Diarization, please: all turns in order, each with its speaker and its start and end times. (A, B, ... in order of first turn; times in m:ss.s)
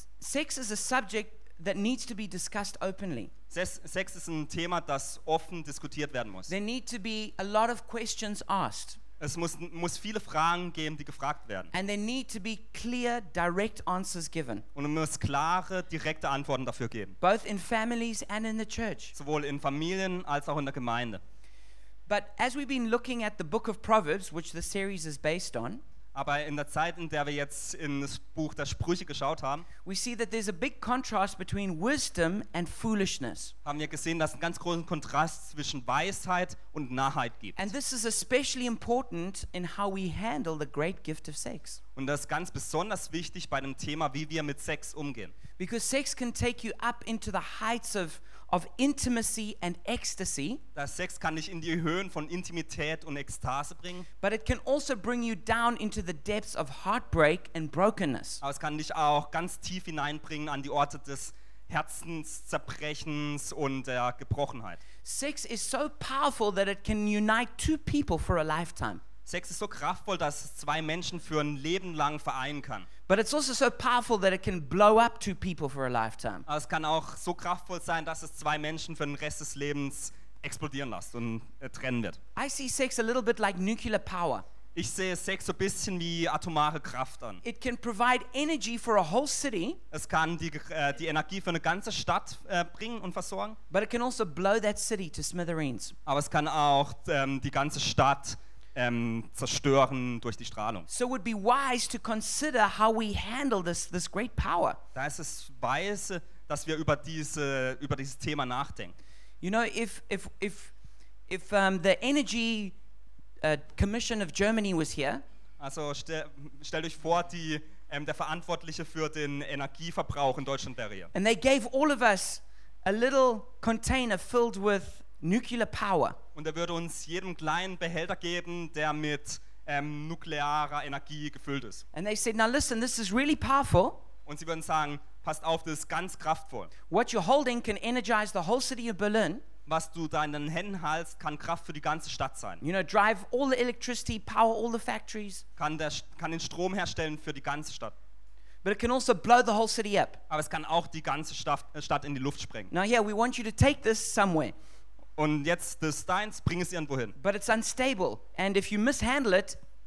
0:00.2-0:03.3 A
0:03.5-0:06.5 B
0:06.5-0:09.0 A
0:09.2-0:11.7 B
0:11.7-0:14.6 A
0:14.7-0:17.2 B
0:17.2-0:19.2 A
0:19.1-0:21.2 B
0:22.1-0:25.8 A
0:26.1-0:29.7 B
0:29.8-0:33.5 A
0:33.6-0:37.6 B
0:37.6-0:41.8 A
0:42.0-0:45.3 B
0:45.6-0:50.6 A
0:50.7-0:54.1 B
0:54.2-0:58.4 A
0:58.4-1:04.8 B
1:05.0-1:09.0 A
1:09.2-1:12.9 B
1:13.1-1:16.4 A
1:16.4-1:22.2 B
1:22.4-1:24.4 A
1:24.7-1:27.4 B
1:27.4-1:29.8 A
1:29.9-1:33.6 B
1:33.7-1:35.9 A
1:36.0-1:40.9 B
1:40.9-1:44.8 A
1:44.9-1:48.9 B
1:49.4-1:50.7 A
1:51.3-1:52.8 A
1:53.4-1:55.2 A
1:55.6-2:01.1 B
2:01.1-2:06.2 A
2:06.3-2:11.8 B
2:11.9-2:14.0 A
2:14.2-2:16.7 B
2:16.9-2:19.4 A
2:19.6-2:22.6 B
2:22.6-2:25.4 A
2:25.6-2:27.9 B
2:28.6-2:30.2 A
2:30.3-2:32.7 B
2:32.7-2:34.5 A
2:35.2-2:37.2 B
2:37.2-2:39.6 A